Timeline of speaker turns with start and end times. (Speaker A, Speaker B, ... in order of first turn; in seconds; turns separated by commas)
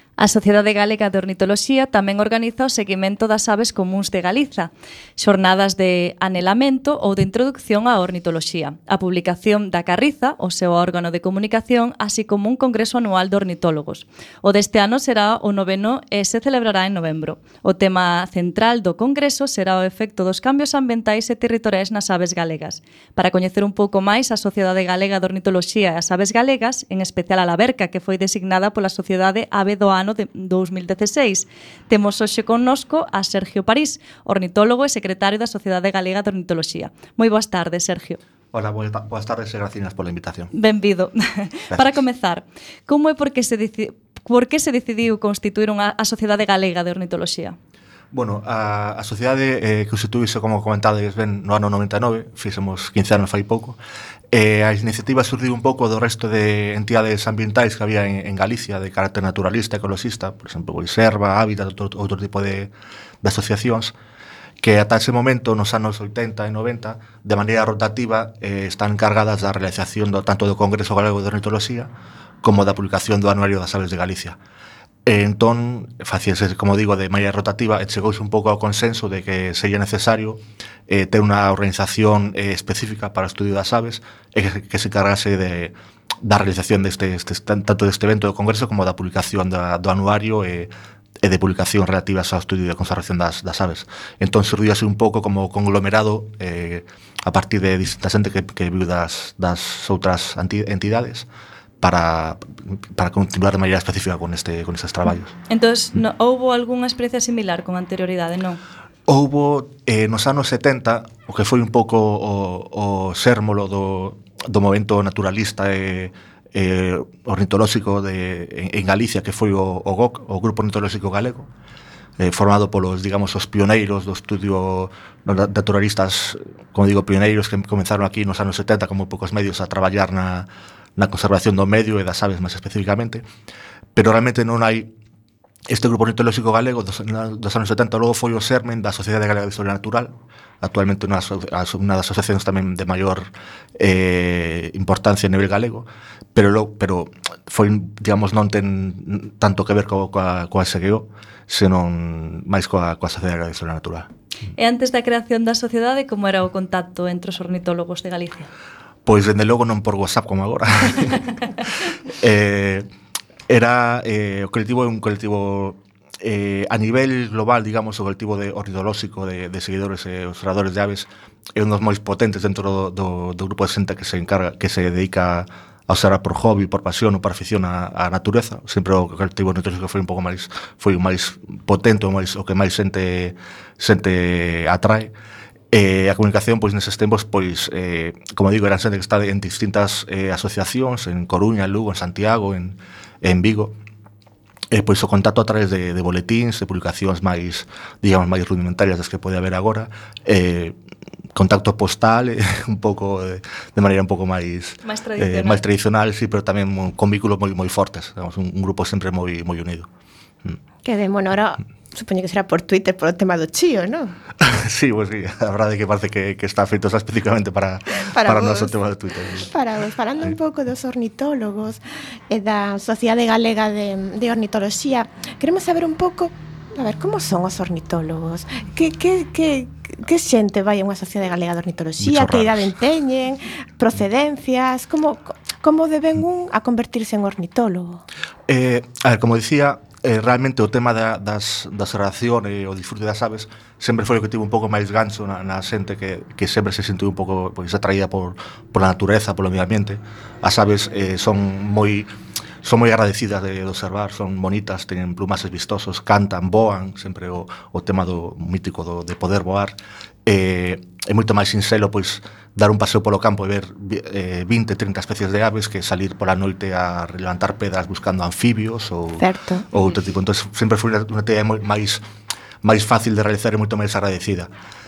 Speaker A: 0.2-38.2, Speaker B: 38.5-40.5, Speaker A: 40.5-47.5, Speaker B: 48.1-53.8, Speaker B: 54.3-63.9, Speaker B: 64.6-71.9, Speaker B: 72.4-74.4, Speaker B: 75.0-101.3, Speaker B: 101.8-105.3, Speaker A: 105.5-108.6, Speaker B: 109.1-121.5, Speaker B: 122.2-133.2, Speaker B: 133.9-134.9, Speaker B: 135.7-154.1, Speaker A: 154.5-158.5, Speaker B: 159.1-161.3, Speaker B: 162.2-162.8, Speaker B: 163.5-185.1, Speaker B: 185.7-193.8, Speaker B: 194.7-200.8, Speaker B: 201.3-209.9, Speaker A: 204.8-205.6, Speaker C: 210.8-214.2, Speaker B: 214.4-219.5, Speaker C: 218.1-218.8, Speaker C: 219.4-238.0, Speaker B: 232.0-232.6, Speaker B: 238.5-252.1, Speaker B: 252.6-272.0, Speaker C: 269.2-269.7, Speaker B: 272.6-274.5